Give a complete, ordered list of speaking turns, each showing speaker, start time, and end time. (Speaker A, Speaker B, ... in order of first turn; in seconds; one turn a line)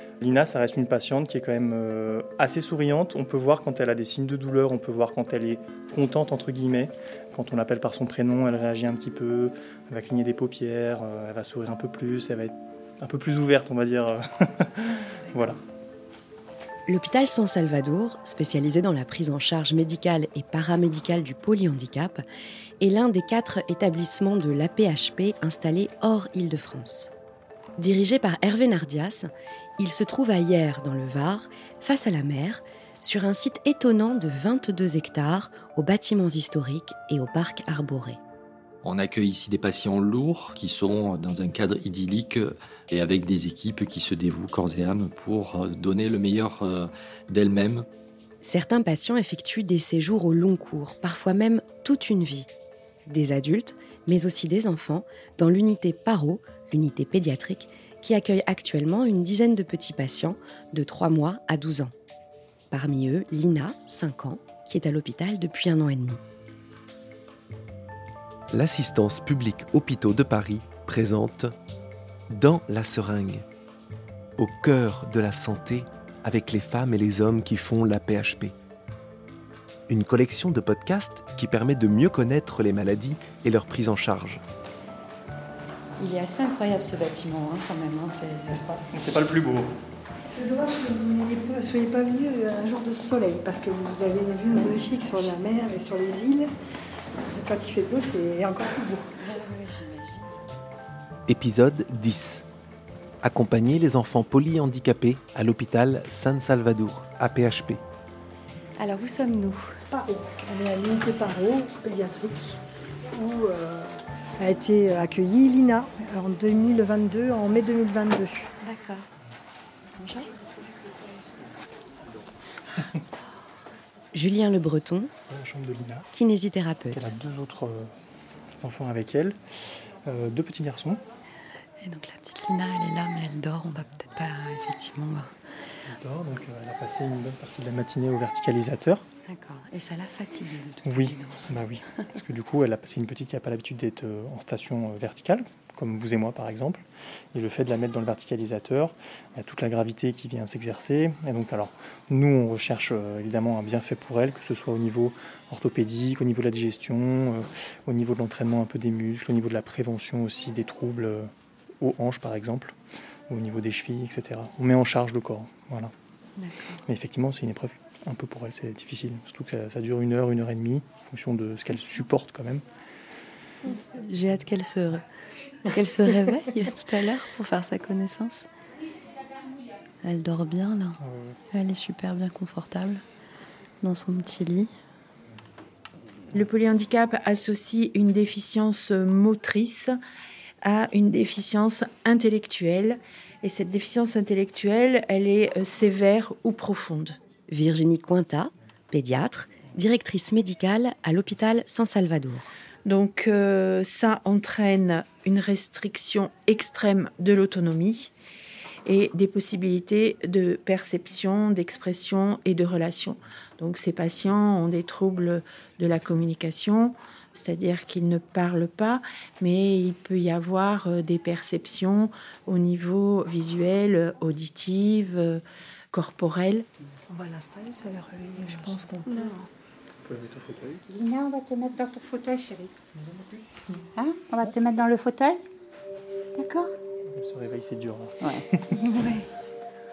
Speaker A: 0.2-15.6
Speaker B: 15.2-15.5
Speaker C: 16.9-22.2
Speaker C: 22.8-27.1
Speaker C: 27.8-38.2
Speaker D: 38.8-47.9
Speaker C: 48.4-52.5
Speaker C: 53.1-61.9
Speaker C: 62.7-66.2
Speaker E: 68.5-71.5
Speaker E: 72.3-73.4
Speaker E: 74.4-78.5
Speaker E: 79.9-84.4
Speaker B: 86.0-88.7
Speaker A: 88.5-89.7
Speaker F: 90.3-96.5
Speaker F: 97.3-99.1
Speaker B: 99.2-100.3
Speaker E: 101.3-102.4
Speaker E: 103.2-107.8
Speaker B: 108.8-109.8
Speaker F: 109.9-112.6
Speaker F: 113.1-118.5
Speaker B: 118.6-119.1
Speaker B: 120.0-120.3
Speaker C: 124.1-125.1
Speaker A: 125.3-126.1
Speaker C: 126.1-127.1
Speaker A: 126.9-127.9
Speaker A: 128.6-131.0
Speaker B: 131.8-135.3
Speaker A: 135.8-139.1
Speaker B: 139.3-142.1
Speaker A: 140.8-162.8
Speaker A: 163.3-165.9
Speaker B: 166.4-166.8
Speaker A: 166.8-172.6
Speaker B: 173.7-175.0
Speaker B: 175.7-178.5
Speaker B: 180.0-181.0
Speaker A: 181.0-181.4
Speaker B: 181.5-183.0
Speaker B: 183.8-184.7
Speaker G: 186.3-190.0
Speaker G: 190.6-197.2
Speaker C: 197.5-202.5
Speaker G: 202.8-208.1
Speaker G: 208.8-226.7
Speaker F: 227.1-229.5
Speaker H: 228.5-229.4
Speaker A: 230.0-230.8
Speaker H: 230.9-232.7
Speaker H: 233.7-235.4
Speaker H: 236.3-236.7
Speaker A: 237.1-238.7
Speaker B: 238.7-239.3